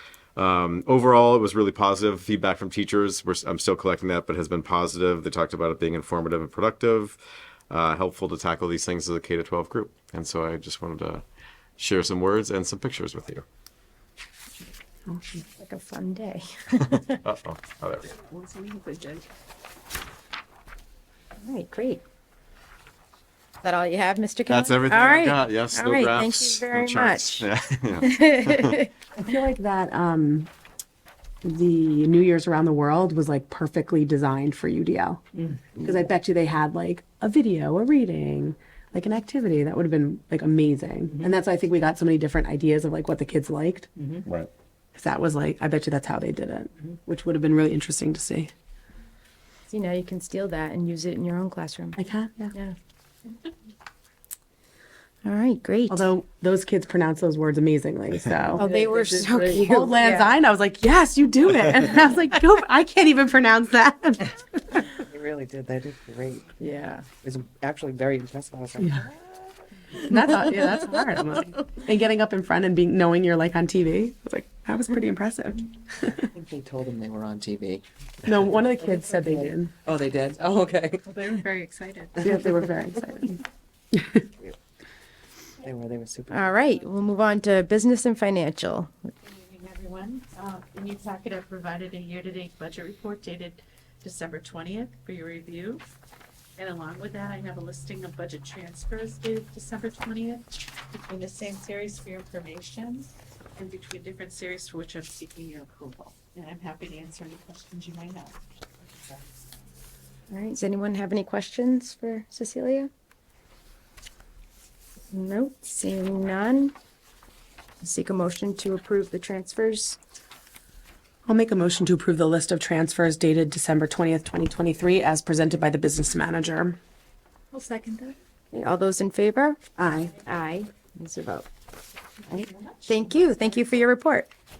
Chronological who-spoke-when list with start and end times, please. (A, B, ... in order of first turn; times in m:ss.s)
0:00.4-0:07.2 A
0:07.7-0:11.2 A
0:11.8-0:13.4 A
0:15.1-0:15.4 B
0:15.6-0:17.2 C
0:16.8-0:18.1 A
0:18.2-0:19.2 D
0:21.4-0:22.0 C
0:23.6-0:27.5 C
0:24.5-0:28.8 A
0:28.0-0:28.9 C
0:29.2-0:30.5 B
0:31.4-0:35.2 B
0:35.8-0:43.9 B
0:44.2-0:44.5 A
0:44.9-0:48.5 B
0:49.7-0:52.0 C
0:52.0-0:52.5 B
0:55.2-0:56.1 C
0:55.9-0:58.6 B
0:58.6-1:00.3 C
0:58.6-0:59.6 E
0:59.4-1:04.8 B
1:05.0-1:09.4 E
1:06.6-1:07.0 C
1:08.8-1:09.0 B
1:10.0-1:16.2 B
1:16.3-1:17.8 E
1:18.2-1:19.7 B
1:18.9-1:21.2 E
1:21.0-1:22.2 D
1:22.2-1:23.4 B
1:23.9-1:24.2 B
1:25.6-1:26.7 E
1:26.3-1:29.1 C
1:29.2-1:35.8 D
1:36.6-1:49.3 D
1:50.3-1:52.9 C
1:55.1-1:56.7 C
1:57.8-2:00.0 C
2:01.2-2:06.8 B
2:07.5-2:08.1 D
2:08.5-2:09.6 C
2:09.8-2:10.1 B
2:10.2-2:11.5 C
2:12.2-2:13.7 D
2:12.3-2:14.3 C